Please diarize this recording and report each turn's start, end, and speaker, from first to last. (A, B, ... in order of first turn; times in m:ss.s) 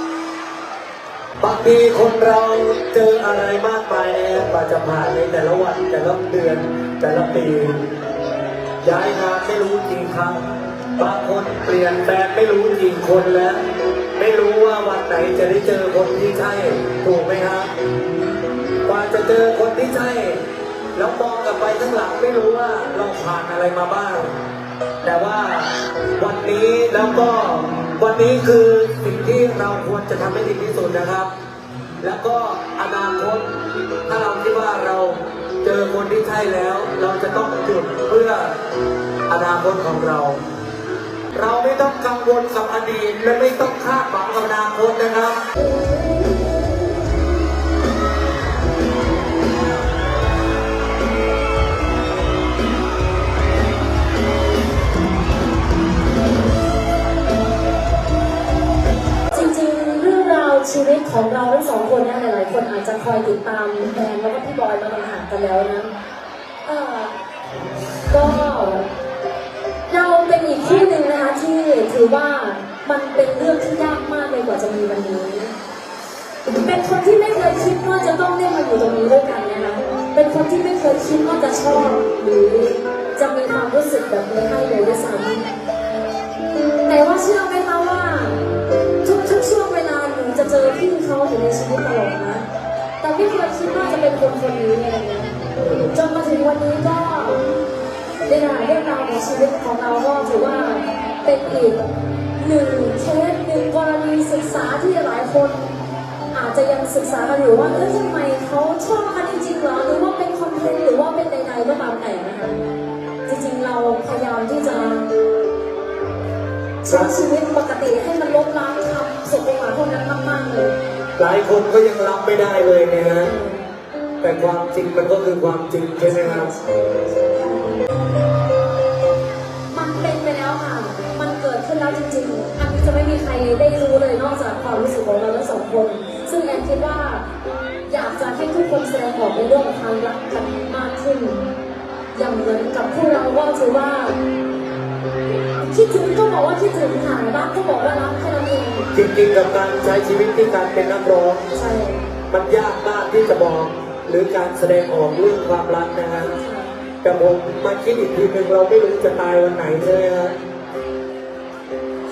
0:01.4-0:07.8 A
0:08.8-0:10.4 A
0:11.0-0:13.6 A
0:14.2-0:17.7 A
0:18.9-0:20.4 A
0:21.0-0:24.3 A
0:25.0-0:31.3 A
0:32.0-0:33.5 A
0:34.1-0:38.5 A
0:39.3-0:40.4 A
0:41.3-0:45.4 A
0:59.3-1:05.9 B
1:06.6-1:07.2 B
1:08.1-1:08.9 B
1:09.9-1:15.5 B
1:16.5-1:25.5 B
1:26.9-1:28.4 B
1:29.0-1:32.5 B
1:33.0-1:35.3 B
1:35.6-1:35.9 A
1:35.9-1:37.4 B
1:38.3-1:41.9 B
1:42.4-1:45.6 B
1:46.3-1:52.6 B
1:53.3-1:55.1 B
1:56.8-2:00.7 B
1:56.9-1:57.1 A
2:01.2-2:03.3 A
2:03.2-2:03.6 B
2:04.2-2:06.5 A
2:06.0-2:07.9 B
2:09.7-2:17.2 B
2:17.9-2:21.4 B
2:22.1-2:24.2 B
2:25.6-2:28.9 B
2:28.9-2:31.4 A
2:31.5-2:32.1 B
2:32.3-2:36.3 A
2:36.2-2:36.8 B
2:37.0-2:40.4 A